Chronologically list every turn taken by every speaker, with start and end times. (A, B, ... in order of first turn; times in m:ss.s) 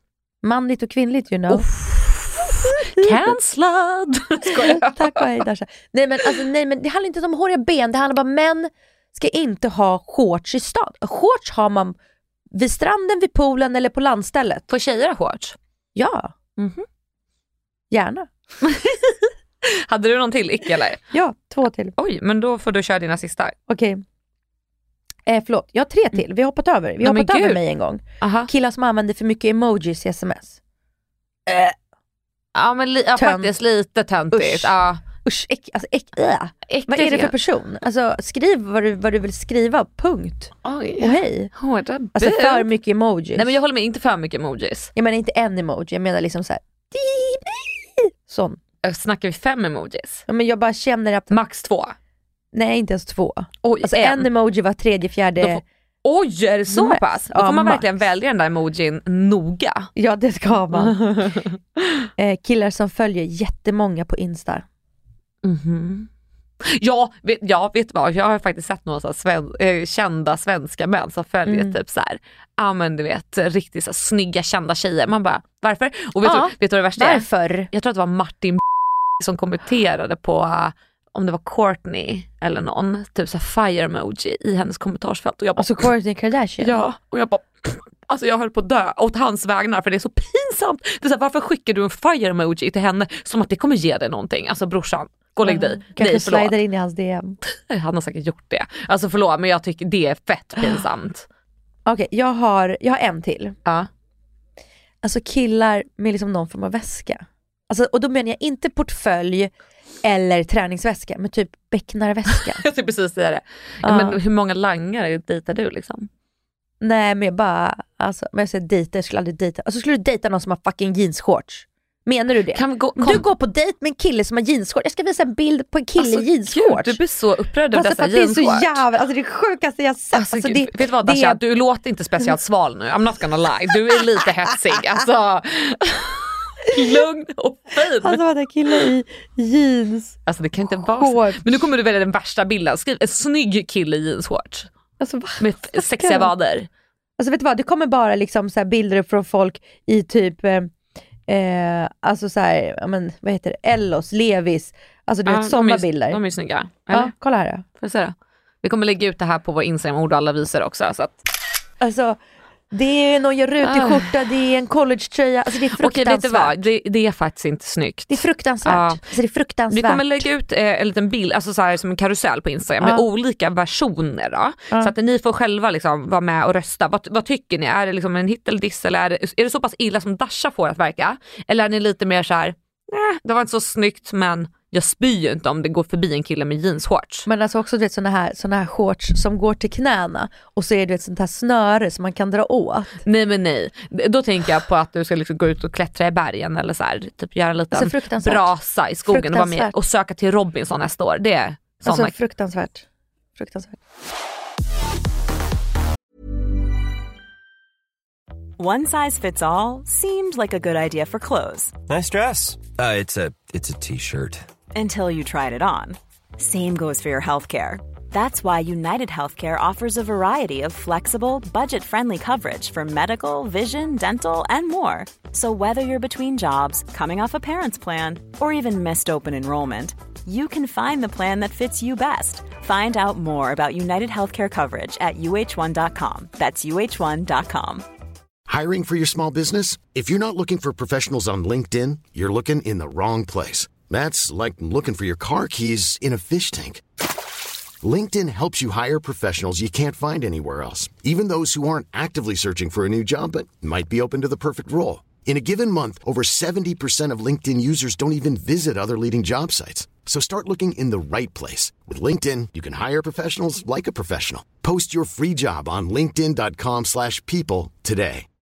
0:00.4-0:01.6 A
0:01.5-0:05.2 B
0:02.6-0:03.2 A
0:04.4-0:12.0 A
0:12.5-0:14.7 A
0:14.7-0:15.6 B
0:15.9-0:16.3 A
0:16.6-0:16.8 B
0:17.9-0:18.3 A
0:18.6-0:21.0 B
0:21.1-0:21.9 A
0:22.0-0:23.5 B
0:23.7-0:24.0 A
0:25.2-0:30.6 A
0:27.0-0:27.6 B
0:28.2-0:28.5 B
0:31.5-0:31.8 A
0:32.5-0:35.0 B
0:33.2-0:33.5 A
0:34.3-0:34.7 A
0:35.2-0:41.5 A
0:36.7-0:37.3 B
0:40.6-0:42.7 B
0:42.1-0:43.5 A
0:43.3-0:44.9 B
0:44.9-0:48.6 A
0:48.8-0:50.2 B
0:50.3-0:51.3 A
0:51.3-0:51.9 B
0:52.5-0:55.6 A
0:53.6-0:54.3 B
0:55.4-0:59.9 B
0:56.7-0:57.9 A
1:00.0-1:01.3 A
1:00.7-1:01.6 B
1:02.2-1:04.6 A
1:05.4-1:06.1 B
1:06.6-1:18.6 B
1:11.4-1:11.8 A
1:16.2-1:17.7 A
1:19.2-1:25.9 B
1:25.6-1:26.8 A
1:26.6-1:36.5 B
1:35.4-1:37.4 A
1:37.4-1:41.2 B
1:41.8-1:43.5 A
1:45.0-1:52.6 A
1:52.3-1:56.1 B
1:53.8-1:54.2 A
1:56.8-2:07.0 A
2:02.5-2:03.2 B
2:06.0-2:08.8 B
2:07.7-2:11.4 A
2:10.1-2:18.2 B
2:18.0-2:20.2 A
2:20.3-2:24.7 B
2:20.7-2:21.4 A
2:25.0-2:26.3 A
2:25.4-2:26.7 B
2:27.2-2:30.7 A
2:31.3-2:36.2 A
2:35.3-2:37.1 B
2:36.9-2:37.6 A
2:37.8-2:41.2 B
2:41.8-2:42.2 A
2:42.7-2:46.6 A
2:43.6-2:44.2 B
2:45.8-2:49.0 B
2:48.1-2:50.3 A
2:49.7-3:07.3 B
3:07.2-3:13.0 A
3:13.0-3:22.1 B
3:17.7-3:18.5 A
3:19.1-3:19.7 A
3:21.8-3:22.8 A
3:23.4-3:23.8 A
3:28.6-3:31.7 C
3:31.9-3:34.4 D
3:34.7-3:57.8 C
3:58.5-4:06.8 E
4:07.8-4:28.3 E